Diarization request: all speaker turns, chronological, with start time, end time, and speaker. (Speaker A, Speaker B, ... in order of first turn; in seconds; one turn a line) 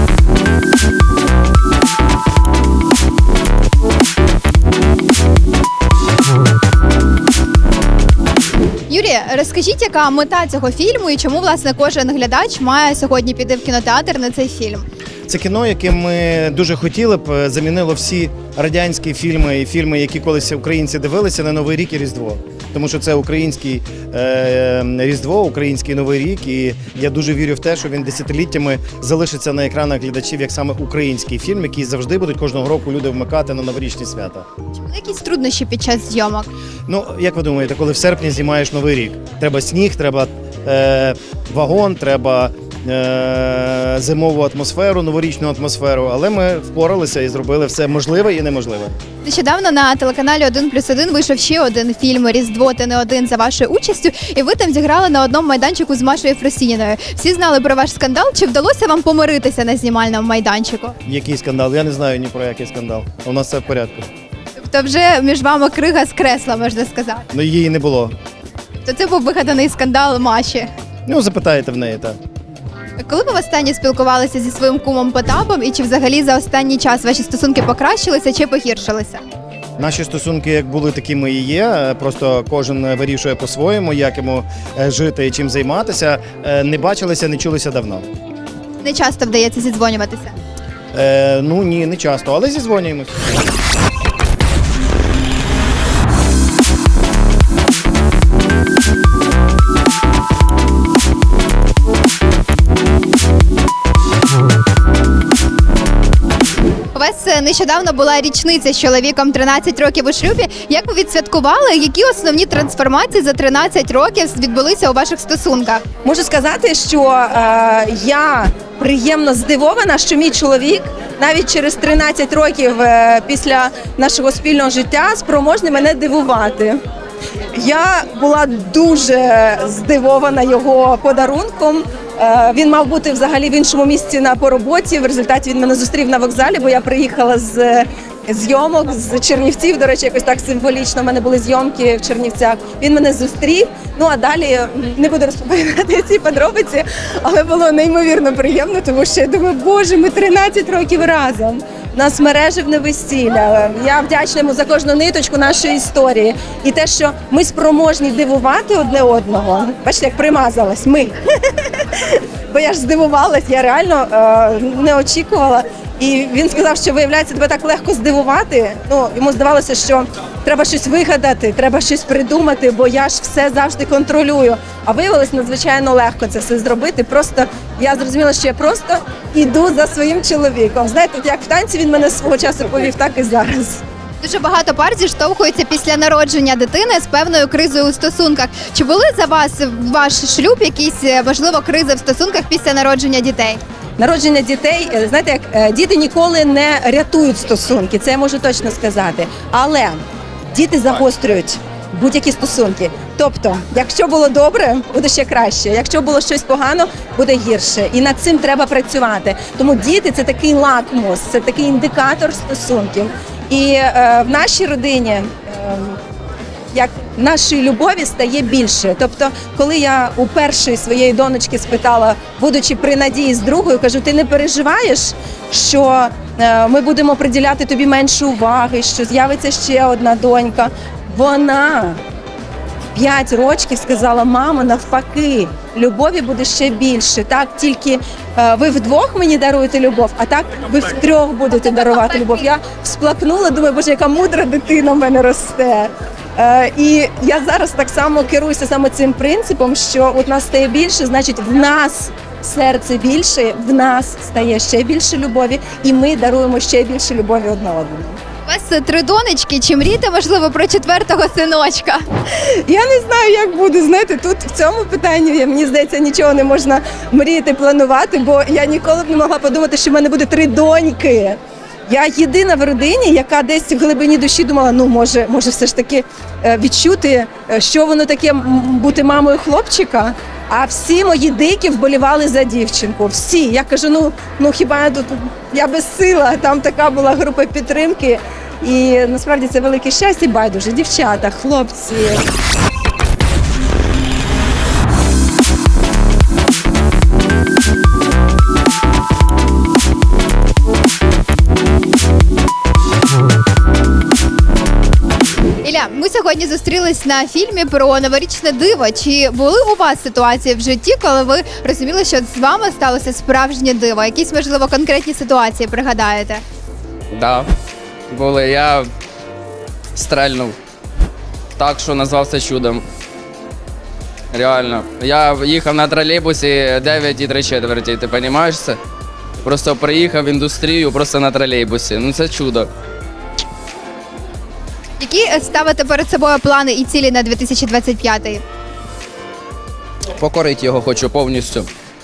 Speaker A: 8.9-14.8
Speaker B: 15.3-34.4
Speaker A: 34.7-36.5
Speaker B: 36.9-48.9
Speaker A: 49.2-61.0
Speaker B: 61.0-64.1
Speaker A: 64.6-67.3
Speaker B: 67.3-68.1
Speaker A: 68.8-70.7
Speaker B: 71.0-72.2
Speaker A: 73.0-79.2
Speaker B: 79.8-88.0
Speaker A: 88.8-90.3
Speaker B: 90.9-93.2
Speaker A: 106.9-115.8
Speaker C: 116.0-126.8
Speaker C: 127.5-183.8
Speaker A: 184.2-193.6
Speaker C: 194.0-200.0
Speaker C: 200.5-216.0
Speaker C: 216.7-232.0
Speaker C: 232.9-258.2
Speaker A: 258.5-262.0
Speaker C: 262.6-292.3
Speaker A: 305.6-316.4
Speaker D: 317.1-317.5
Speaker D: 318.1-318.9
Speaker D: 319.9-320.6
Speaker D: 321.6-322.8
Speaker D: 324.3-328.8
Speaker D: 329.4-332.7
Speaker A: 335.0-338.4
Speaker D: 340.2-341.7